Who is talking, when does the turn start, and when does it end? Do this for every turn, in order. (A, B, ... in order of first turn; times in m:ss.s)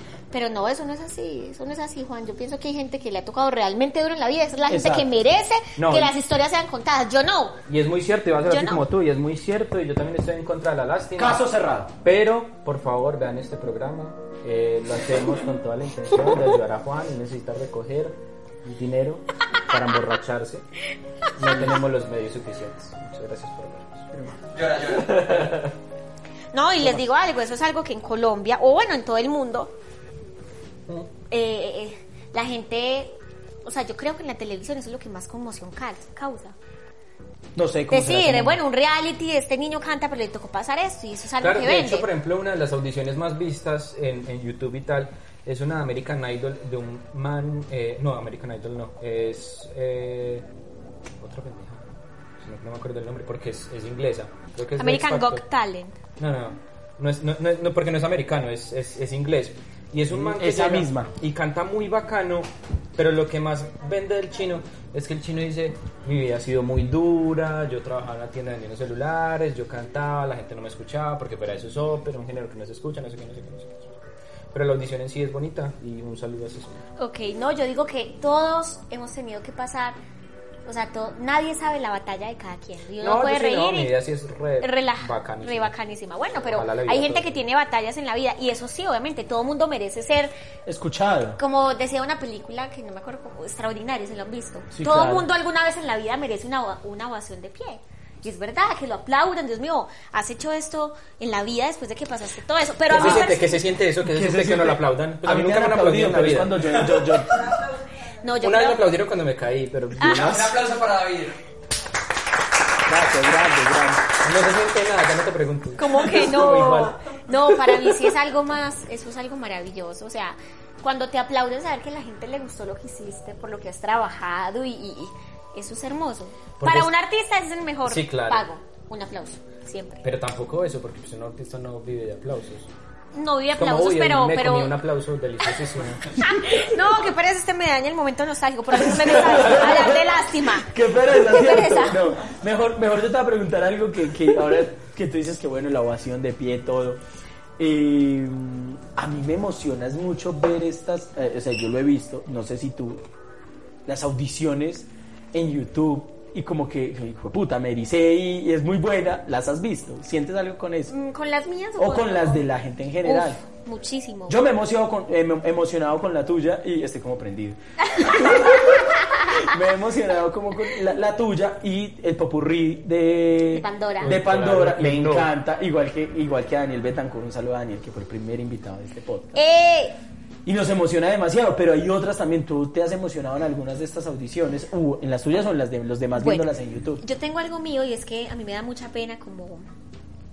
0:00.3-0:07.6 A
0:04.7-0:05.1 B
0:05.8-0:06.1 C
0:07.7-0:11.4 C
0:08.5-0:08.8 A
0:11.2-0:11.9 B
0:12.0-0:20.6 C
0:21.4-0:25.7 C
0:24.5-0:25.5 D
0:26.5-0:29.7 A
0:31.3-0:36.6 A
0:37.6-0:38.6 B
0:37.9-0:42.1 A
0:41.4-0:50.5 C
0:51.2-0:51.8 C
0:52.4-0:55.4 C
0:54.8-0:56.0 A
0:56.2-1:14.0 C
1:00.1-1:01.1 B
1:14.5-1:16.8 C
1:17.0-1:20.0 A
1:20.7-1:23.9 A
1:23.0-1:25.7 C
1:24.6-1:30.3 A
1:26.5-1:27.4 C
1:30.7-1:31.4 B
1:31.4-1:43.5 A
1:34.7-1:35.3 B
1:42.9-1:46.8 C
1:42.9-1:43.4 B
1:44.0-1:47.4 B
1:48.2-1:48.8 A
1:48.4-1:50.6 C
1:50.0-1:50.5 A
1:50.0-1:51.4 D
1:52.8-1:54.1 B
1:54.2-1:57.0 C
1:55.8-2:10.0 A
2:06.6-2:06.9 C
2:07.9-2:08.4 C
2:10.0-2:12.7 C
2:13.2-2:14.8 A
2:13.6-2:16.2 C
2:16.2-2:22.0 A
2:19.0-2:27.0 B
2:27.6-2:33.0 B
2:33.9-2:40.9 B
2:40.9-2:42.4 A
2:41.8-2:43.4 B
2:43.0-2:44.4 A
2:44.3-2:59.4 B
2:53.5-2:54.2 A
2:54.0-2:55.3 C
2:59.3-3:00.0 A
3:00.4-3:07.0 B
3:06.2-3:06.5 A
3:07.0-3:09.7 A